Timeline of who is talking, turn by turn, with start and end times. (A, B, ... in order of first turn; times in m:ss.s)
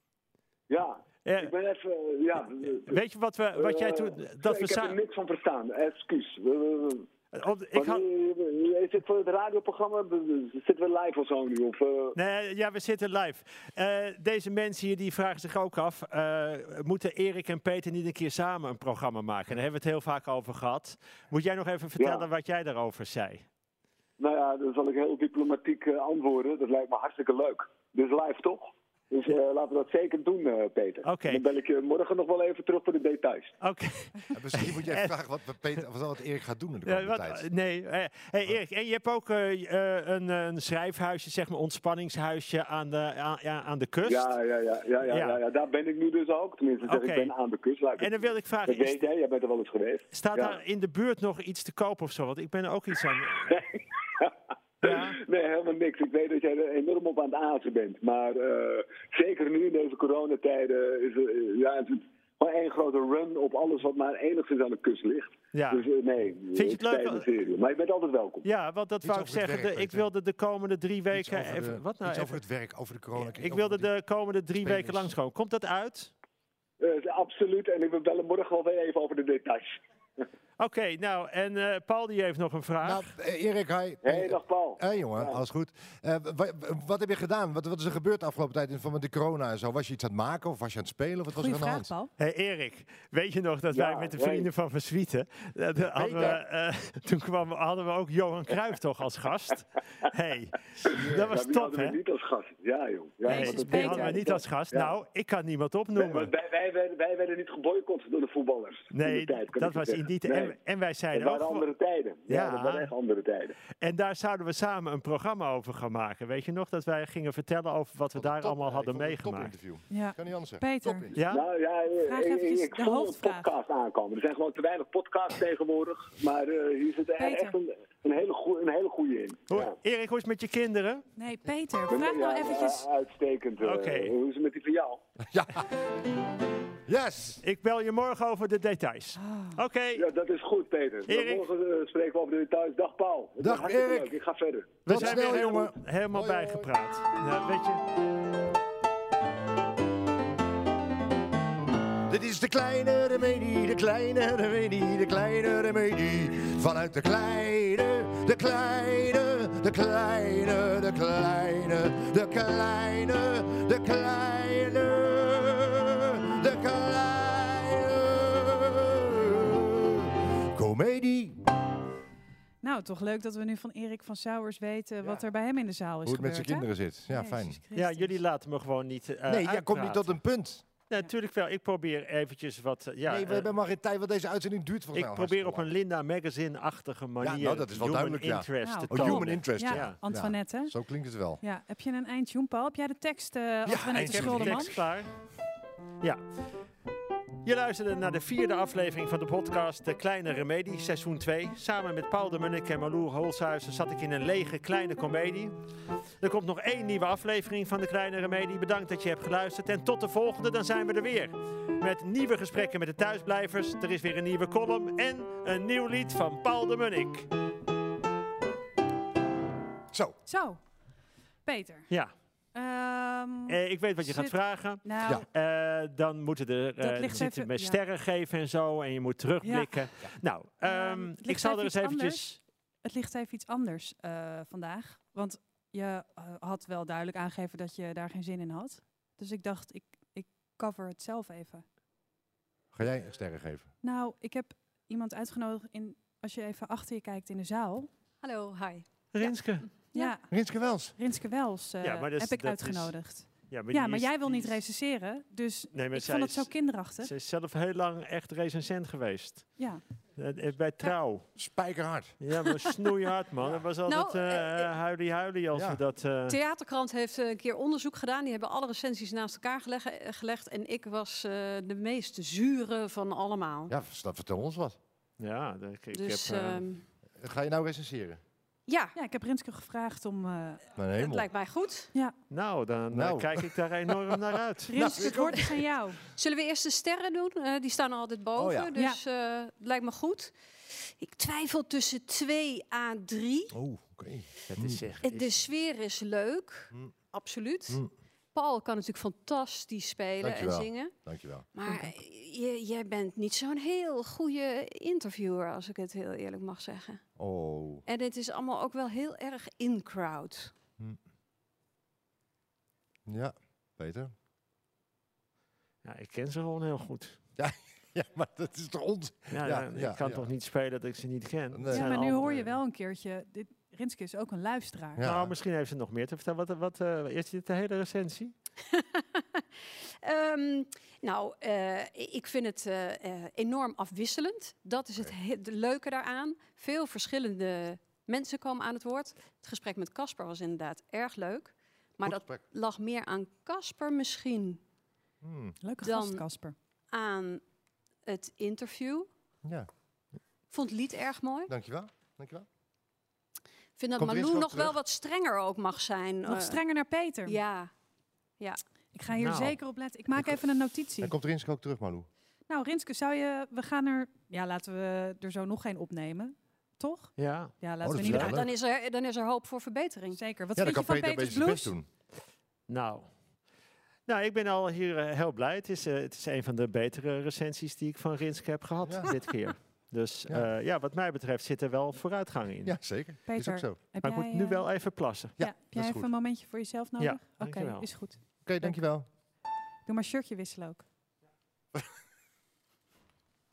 0:00.7-0:03.0 A
0:01.2-0:01.5 B
0:02.7-0:05.0 B
0:03.6-0:07.1 A
0:07.3-0:08.0 B
0:07.7-0:12.2 A
0:12.1-0:23.4 B
0:22.0-0:22.3 A
0:24.2-0:33.5 A
0:31.0-0:31.4 B
0:33.6-0:35.1 B
0:34.3-0:37.4 C
0:36.8-0:44.3 B
0:44.0-0:50.6 A
0:45.0-0:45.4 B
0:46.8-0:47.3 B
0:48.0-0:49.0 B
0:50.1-0:53.5 B
0:53.5-1:08.5 A
0:54.8-0:55.2 B
1:05.5-1:05.9 B
1:06.5-1:07.3 B
1:08.4-1:12.4 B
1:09.0-1:10.1 C
1:11.1-1:13.9 C
1:13.1-1:16.1 B
1:14.6-1:15.1 C
1:16.8-1:19.8 A
1:20.6-1:23.1 B
1:22.8-1:31.9 C
1:24.0-1:25.4 A
1:31.3-1:32.1 D
1:32.2-1:42.0 B
1:33.7-1:34.5 A
1:35.9-1:36.4 C
1:40.8-1:44.9 A
1:43.3-1:46.3 B
1:43.3-1:44.2 D
1:45.9-1:50.6 A
1:48.9-1:51.7 B
1:51.1-1:53.5 A
1:52.3-1:52.9 B
1:53.8-1:59.5 B
1:58.1-2:01.2 C
1:59.9-2:01.1 D
2:01.2-2:01.4 B
2:01.3-2:09.8 A
2:02.0-2:03.5 D
2:07.2-2:07.6 D
2:09.5-2:11.0 B
2:11.2-2:12.9 D
2:11.9-2:15.0 A
2:13.6-2:14.1 B
2:15.3-2:15.6 C
2:16.9-2:17.4 C
2:17.4-2:20.1 B
2:19.2-2:19.6 D
2:20.0-2:25.3 A
2:21.1-2:21.5 B
2:23.4-2:24.1 C
2:24.8-2:27.8 B
2:24.8-2:26.7 C
2:32.0-2:51.4 C
2:52.6-2:58.2 D
2:56.0-2:57.6 C
2:57.7-3:00.2 B
2:59.3-3:00.6 C
3:00.9-3:03.5 B
3:03.0-3:05.7 C
3:04.9-3:10.0 B
3:07.2-3:11.4 C
3:08.6-3:10.7 D
3:11.4-3:14.7 D
3:13.6-3:14.8 C
3:14.0-3:15.1 B
3:17.4-3:25.6 B
3:26.2-3:37.3 B
3:40.2-3:40.6 D
3:41.4-3:41.9 D
3:42.5-3:45.2 D
3:43.5-3:52.4 B
3:46.8-3:47.8 D
3:49.4-3:49.8 D
3:50.6-4:01.6 D
4:02.7-4:03.7 C
4:03.8-4:07.9 D
4:08.2-4:09.4 E
4:09.1-4:09.7 B
4:09.9-4:10.3 D
4:10.3-4:10.9 C
4:11.0-4:17.1 D
4:11.8-4:12.9 B
4:13.5-4:14.6 B
4:15.7-4:19.6 B
4:20.2-4:21.2 B
4:21.4-4:22.1 C
4:22.2-4:26.4 B
4:23.8-4:24.8 E
4:25.5-4:25.8 C
4:26.3-4:33.7 E
4:33.7-4:34.8 C
4:35.2-4:36.6 B
4:35.9-4:36.8 E
4:37.2-4:38.2 C
4:38.7-4:39.0 E
4:38.9-4:40.6 D
4:40.8-4:41.3 C
4:41.0-4:41.9 E
4:42.3-4:44.7 B
4:42.9-4:44.2 C
4:44.7-4:46.0 D
4:44.7-4:45.6 C
4:46.1-4:50.3 E
4:48.4-4:48.7 C
4:48.7-4:49.0 D
4:51.0-4:53.6 E
4:53.5-4:54.9 C
4:54.5-4:55.4 B
4:55.0-4:57.8 E
4:58.3-5:00.9 E
5:00.2-5:01.5 C
5:01.5-5:07.0 E
5:01.6-5:01.9 D
5:07.2-5:07.8 C
5:07.8-5:10.5 E
5:13.1-5:14.1 C
5:15.8-5:17.2 B
5:17.4-5:20.3 C
5:19.3-5:22.4 B
5:21.5-5:22.5 C
5:21.7-5:25.0 D
5:25.0-5:25.3 C
5:25.0-5:28.3 B
5:28.7-5:29.4 E
5:30.0-5:44.6 E
5:42.0-5:42.4 C
5:45.2-5:45.6 C
5:45.6-5:46.5 D
5:45.8-5:46.2 E
5:46.9-5:47.4 E
5:48.0-5:49.1 E
5:49.4-5:49.7 C
5:50.5-5:51.5 E
5:51.5-5:52.4 C
5:53.8-5:56.6 E
5:54.0-5:54.8 C
5:56.2-5:57.4 D
5:57.2-5:57.7 E
5:58.9-6:01.1 D
5:59.1-5:59.6 B
6:01.0-6:02.1 C
6:02.5-6:08.4 D
6:07.2-6:08.3 B
6:07.8-6:08.5 C
6:08.1-6:10.2 E
6:10.1-6:11.7 D
6:10.6-6:11.9 C
6:12.7-6:13.1 B
6:14.1-6:22.8 B
6:18.8-6:19.1 C
6:22.6-6:23.8 C
6:23.3-6:24.7 D
6:24.0-6:25.4 B
6:25.4-6:26.1 C
6:25.4-6:28.8 D
6:27.0-6:27.9 B
6:28.4-6:29.0 C
6:29.8-6:30.8 D